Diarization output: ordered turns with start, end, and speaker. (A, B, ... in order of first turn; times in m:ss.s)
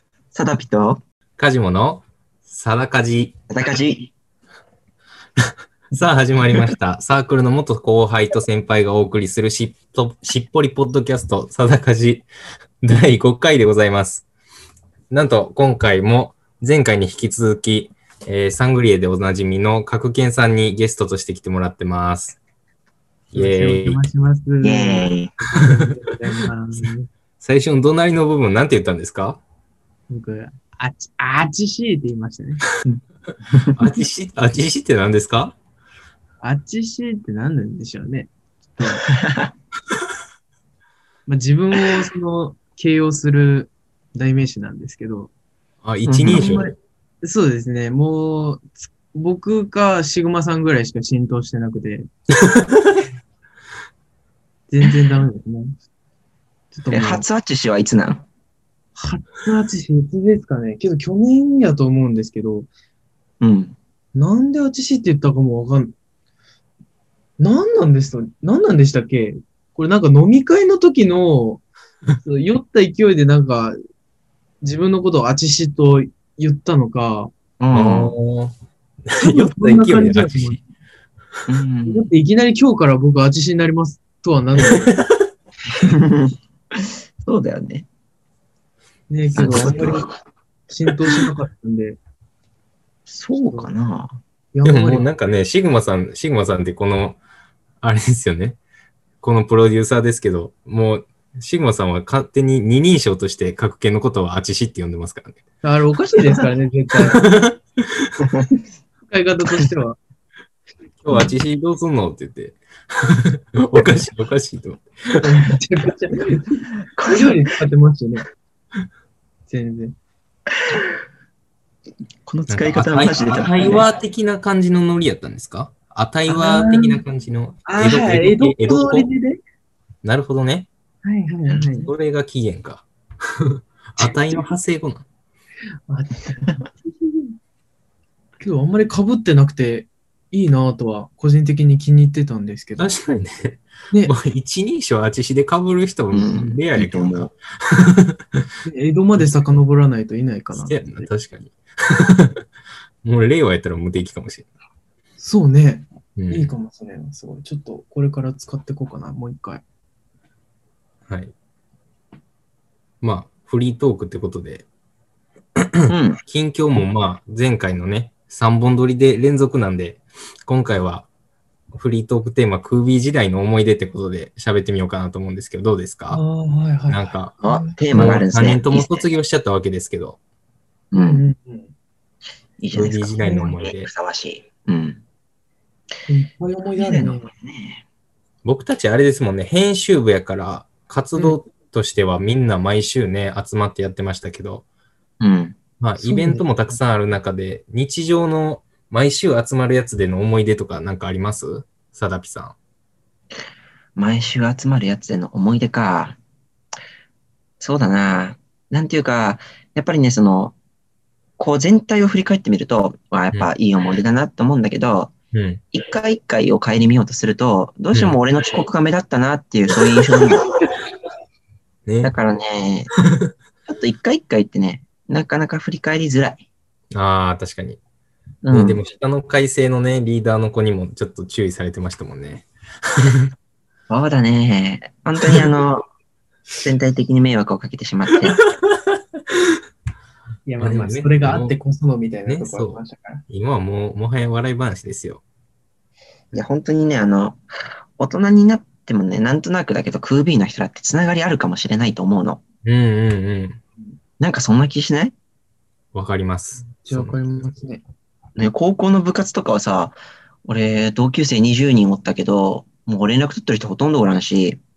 0:00.3-0:01.0 A
0:01.4-0:03.3 B
0:03.5-0:04.1 A
0:05.9-0:12.3 B
0:12.8-0:14.3 B
0:15.1-0:22.4 B
0:23.3-0:24.0 B
0:23.3-0:27.1 C
0:24.6-0:25.3 A
0:27.4-0:29.4 B
0:30.1-0:32.6 C
0:33.5-0:33.8 A
0:33.7-0:35.6 B
0:36.4-0:39.1 C
0:39.1-0:39.5 A
0:41.3-0:45.3 C
0:45.8-0:46.7 B
0:46.1-0:46.6 A
0:46.3-0:52.1 C
0:52.4-0:52.8 B
0:54.7-0:55.8 C
0:56.7-0:57.3 C
0:56.9-0:58.3 A
0:59.0-1:02.7 C
1:03.4-1:03.8 A
1:04.2-1:05.9 C
1:07.4-1:11.6 C
1:12.2-1:13.8 C
1:14.6-1:17.3 C
1:17.6-1:18.2 A
1:17.7-1:18.5 B
1:19.1-1:20.6 B
1:19.2-1:20.6 C
1:21.5-1:22.1 A
1:21.9-1:24.9 C
1:24.7-1:25.0 B
1:25.8-1:27.9 A
1:29.1-1:30.1 C
1:29.4-1:30.1 A
1:30.7-1:32.0 C
1:33.1-1:34.1 A
1:33.4-1:33.7 C
1:34.5-1:35.1 C
1:34.6-1:37.2 B
1:37.8-1:38.6 B
1:39.2-1:45.4 B
1:45.6-1:47.2 C
1:47.1-1:48.1 B
1:48.2-1:48.6 A
1:49.1-1:50.0 C
1:51.0-1:55.2 B
1:55.2-1:56.4 C
1:56.9-1:57.4 A
1:57.0-1:58.2 C
1:59.5-1:59.9 C
2:02.3-2:03.8 A
2:02.5-2:09.1 B
2:06.3-2:07.0 C
2:07.7-2:09.4 C
2:10.0-2:10.7 B
2:11.0-2:11.9 C
2:11.5-2:11.8 A
2:11.8-2:15.0 B
2:15.9-2:17.3 C
2:18.4-2:22.9 C
2:22.8-2:28.4 B
2:26.1-2:27.3 A
2:28.7-2:31.1 C
2:29.2-2:29.5 B
2:30.6-2:32.4 B
2:33.0-2:34.5 B
2:35.2-2:39.6 C
2:36.2-2:36.5 B
2:41.1-2:41.3 B
2:43.0-2:44.6 B
2:45.6-2:51.1 B
2:45.9-2:46.2 A
2:51.7-2:56.2 B
2:56.1-2:58.1 C
2:56.9-2:57.4 B
2:57.4-2:59.1 A
2:57.9-3:00.2 B
3:00.9-3:01.2 A
3:01.0-3:01.7 C
3:02.6-3:05.0 A
3:02.7-3:03.9 B
3:03.2-3:03.5 C
3:06.1-3:07.3 C
3:06.8-3:07.8 A
3:08.4-3:14.6 B
3:15.2-3:15.6 A
3:15.8-3:22.6 B
3:16.0-3:16.5 C
3:24.0-3:26.2 A
3:27.6-3:30.6 A
3:31.4-3:35.1 A
3:35.3-3:35.6 B
3:35.7-3:40.4 A
3:37.9-3:38.2 B
3:41.9-3:42.1 B
3:42.0-3:42.9 A
3:43.7-3:46.4 A
3:46.9-3:47.8 B
3:48.4-3:48.8 A
3:48.5-3:52.5 B
3:53.0-3:53.3 B
3:53.9-3:55.8 A
3:56.6-3:58.4 A
3:58.2-3:58.5 B
4:00.5-4:03.2 C
4:00.6-4:01.6 B
4:02.3-4:05.2 B
4:06.3-4:07.4 A
4:08.0-4:12.4 A
4:12.6-4:13.6 B
4:14.2-4:15.1 A
4:15.9-4:17.4 B
4:16.6-4:17.8 C
4:18.4-4:24.6 A